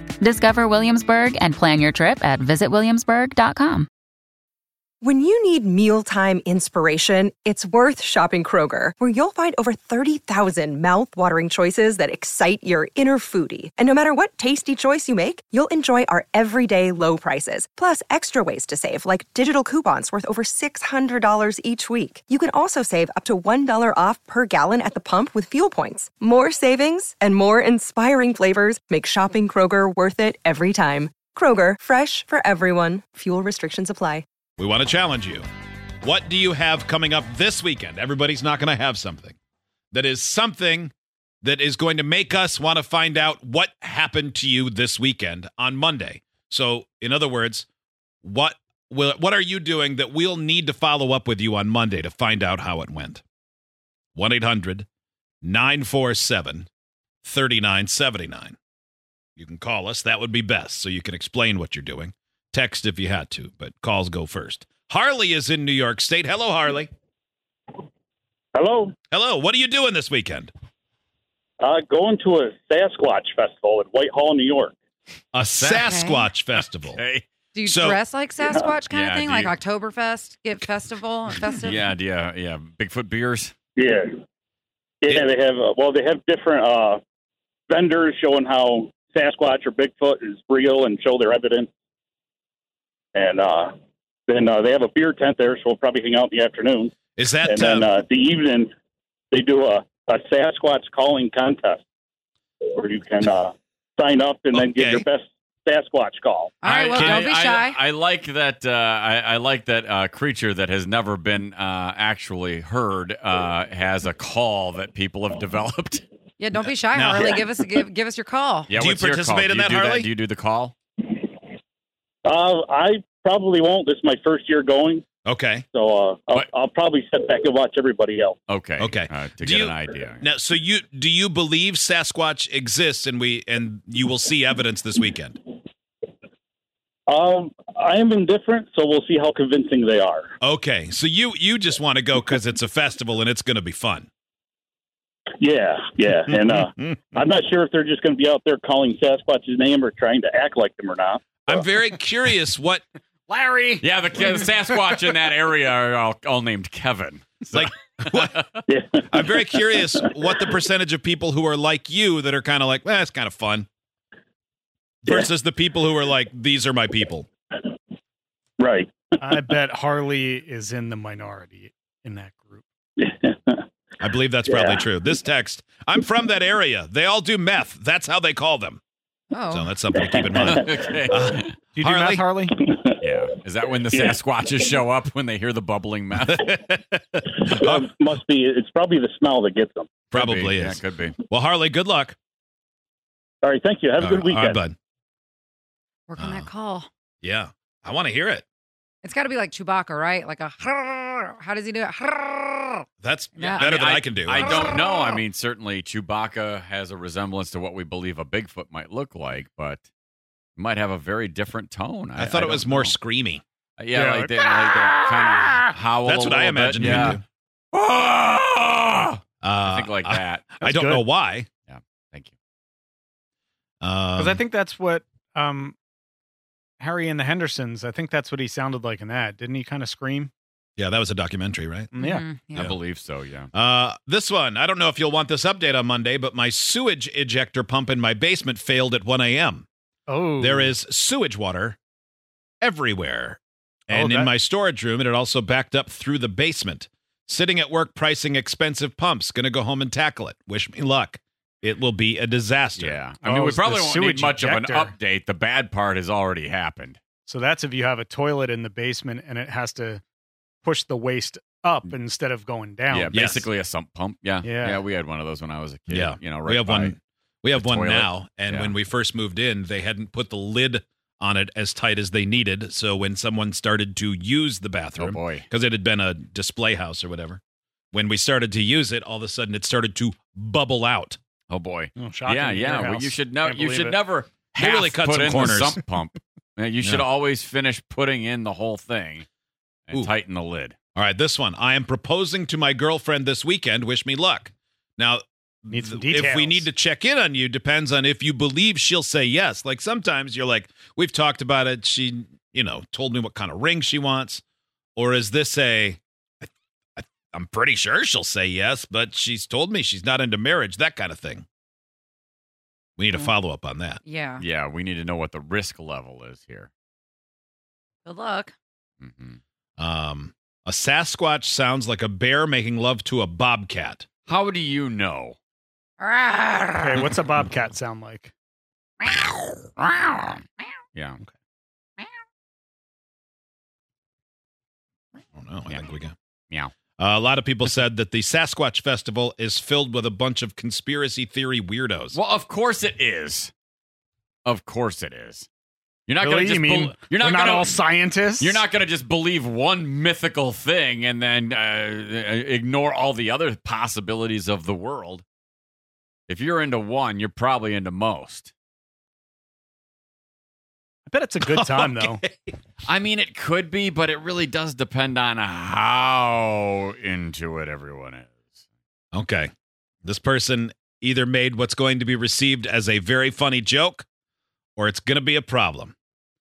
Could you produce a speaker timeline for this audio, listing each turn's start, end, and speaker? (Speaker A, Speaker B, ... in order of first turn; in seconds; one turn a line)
Speaker A: 0.2-3.9
Speaker B: 5.0-34.2
Speaker C: 34.6-35.5
Speaker C: 36.0-39.4
Speaker C: 39.9-47.7
Speaker C: 48.2-53.2
Speaker C: 54.2-54.9
Speaker C: 55.4-56.7
Speaker C: 57.2-58.6
Speaker C: 59.4-66.9
Speaker D: 68.5-68.9
Speaker C: 69.1-70.5
Speaker D: 71.6-74.8
Speaker C: 75.3-77.0
Speaker E: 75.6-75.9
Speaker F: 75.8-76.3
Speaker E: 77.0-77.3
Speaker F: 77.5-81.8
Speaker C: 77.7-78.0
Speaker D: 78.5-78.8
Speaker E: 78.8-79.6
Speaker E: 81.5-83.5
Speaker D: 83.8-84.2
Speaker D: 85.0-87.0
Speaker D: 87.7-91.7
Speaker D: 93.2-93.7
Speaker D: 94.3-96.9
Speaker C: 97.2-97.9
Speaker D: 97.5-98.7
Speaker D: 99.3-101.8
Speaker D: 102.6-106.6
Speaker C: 104.5-105.1
Speaker F: 106.6-107.8
Speaker E: 106.6-116.0
Speaker F: 116.4-118.7
Speaker C: 116.9-117.5
Speaker E: 118.7-120.8
Speaker C: 118.7-120.1
Speaker D: 122.2-125.0
Speaker C: 125.2-125.7
Speaker D: 125.7-128.4
Speaker E: 128.5-130.2
Speaker C: 128.8-135.4
Speaker D: 137.1-140.3
Speaker C: 140.4-144.1
Speaker D: 145.4-151.6
Speaker C: 151.5-152.8
Speaker G: 153.3-153.8
Speaker E: 153.8-158.5
Speaker C: 157.5-158.4
Speaker D: 158.7-159.5
Speaker C: 159.1-163.7
Speaker C: 165.1-167.3
Speaker D: 168.6-169.2
Speaker G: 169.2-172.6
Speaker D: 173.0-173.6
Speaker C: 174.0-178.8
Speaker D: 174.5-174.8
Speaker F: 179.3-179.8
Speaker C: 179.5-182.3
Speaker D: 179.9-180.7
Speaker E: 180.4-181.6
Speaker G: 181.7-182.6
Speaker D: 182.6-182.9
Speaker E: 183.0-186.6
Speaker D: 183.9-184.2
Speaker C: 186.3-187.8
Speaker D: 187.4-190.0
Speaker E: 190.1-191.2
Speaker C: 190.1-192.2
Speaker D: 193.4-194.6
Speaker C: 194.0-194.8
Speaker F: 196.1-196.9
Speaker C: 196.2-196.5
Speaker C: 197.2-198.4
Speaker F: 199.0-202.8
Speaker C: 203.0-204.8
Speaker F: 203.4-203.7
Speaker E: 203.6-209.8
Speaker E: 210.6-213.0
Speaker C: 212.2-213.4
Speaker E: 213.8-220.6
Speaker G: 213.9-215.7
Speaker C: 216.0-217.2
Speaker C: 219.4-221.5
Speaker G: 220.6-221.1
Speaker E: 221.7-222.3
Speaker C: 223.8-224.4
Speaker G: 224.2-225.8
Speaker G: 226.8-230.3
Speaker C: 230.8-231.9
Speaker G: 231.9-232.3
Speaker F: 232.0-232.7
Speaker E: 232.6-233.5
Speaker C: 233.5-239.7
Speaker G: 240.1-240.7
Speaker C: 240.4-241.8
Speaker C: 242.6-253.0
Speaker G: 243.9-244.3
Speaker E: 252.8-257.0
Speaker G: 253.2-254.9
Speaker G: 257.2-260.0
Speaker G: 260.6-263.4
Speaker E: 262.9-266.9
Speaker C: 263.1-263.5
Speaker G: 264.4-264.8
Speaker C: 265.9-277.4
Speaker E: 267.5-268.8
Speaker E: 275.0-275.5
Speaker C: 277.9-281.2
Speaker E: 281.5-289.3
Speaker G: 282.0-284.0
Speaker C: 284.6-285.8
Speaker E: 289.9-290.8
Speaker C: 290.9-304.4
Speaker G: 295.7-296.7
Speaker C: 305.0-311.4
Speaker C: 313.0-314.0
Speaker F: 314.1-314.4
Speaker E: 314.4-316.7
Speaker F: 318.1-318.5
Speaker E: 319.0-319.4
Speaker C: 319.8-324.1
Speaker E: 324.3-325.4
Speaker F: 326.0-326.8
Speaker G: 326.8-328.3
Speaker E: 329.0-330.4
Speaker E: 330.9-331.2
Speaker C: 335.3-336.1
Speaker C: 337.0-342.2
Speaker E: 342.1-343.5
Speaker E: 344.4-345.5
Speaker E: 346.1-347.8
Speaker G: 346.2-348.6
Speaker E: 348.4-355.2
Speaker E: 356.3-358.5
Speaker G: 361.1-362.2
Speaker C: 361.4-362.5
Speaker E: 362.8-368.5
Speaker C: 369.1-369.5
Speaker C: 370.1-374.1
Speaker C: 374.8-375.9